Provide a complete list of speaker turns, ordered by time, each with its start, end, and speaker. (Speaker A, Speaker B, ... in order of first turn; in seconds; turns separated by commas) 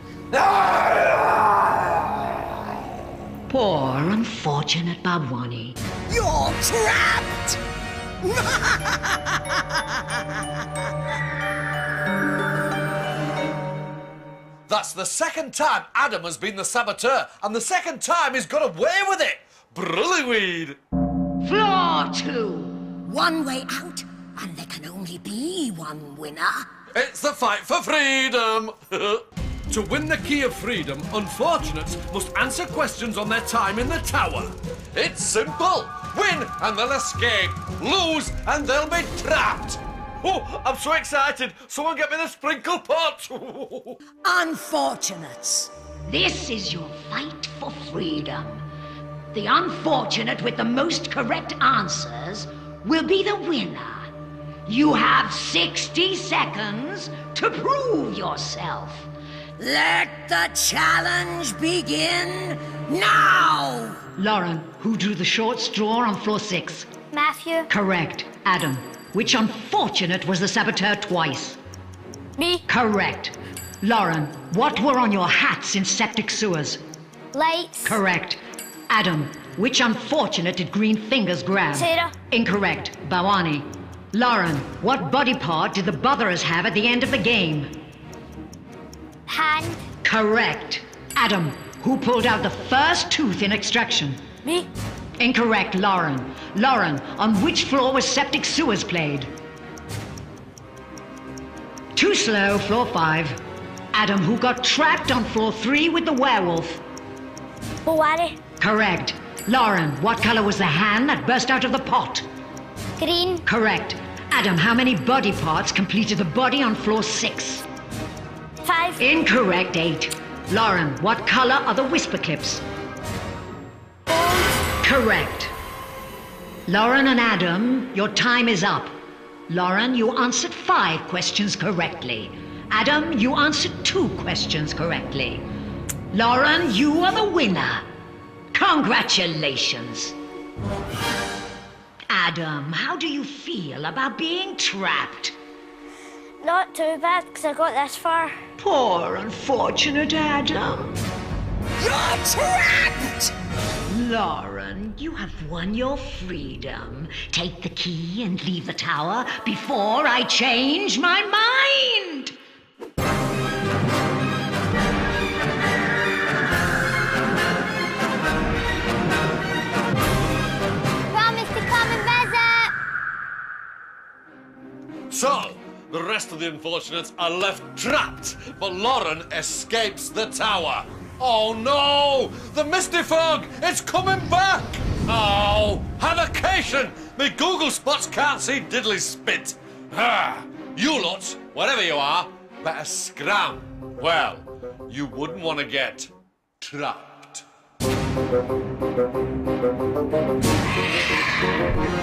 Speaker A: 3.5-5.8, Speaker B: 6.1-7.6, Speaker B: 8.2-9.2, Speaker C: 14.7-20.8, Speaker A: 21.4-22.9, Speaker B: 23.0-26.7, Speaker C: 26.9-44.0, Speaker B: 44.2-45.7, Speaker A: 46.0-48.6, Speaker A: 49.3-54.1, Speaker A: 54.6-59.1, Speaker B: 59.6-64.0, Speaker A: 64.1-66.9, Speaker D: 67.1-67.7, Speaker A: 67.7-71.6, Speaker E: 72.4-72.6, Speaker A: 72.7-76.8, Speaker D: 77.3-78.0, Speaker A: 77.8-87.8, Speaker E: 81.7-82.1, Speaker D: 89.3-89.8, Speaker A: 90.0-94.2, Speaker A: 95.2-99.3, Speaker A: 101.9-103.4, Speaker A: 103.9-106.8, Speaker E: 107.8-108.4, Speaker A: 108.6-112.2, Speaker D: 113.0-113.4, Speaker A: 113.4-117.7, Speaker E: 118.6-119.0, Speaker A: 119.0-122.6, Speaker A: 124.8-125.5, Speaker A: 126.7-128.9, Speaker A: 129.5-135.5, Speaker A: 136.1-137.9, Speaker A: 138.5-140.2, Speaker A: 142.1-145.3, Speaker E: 146.4-148.4, Speaker A: 148.6-151.0, Speaker B: 151.8-153.3, Speaker A: 153.9-162.3, Speaker D: 171.1-172.7, Speaker C: 175.1-197.4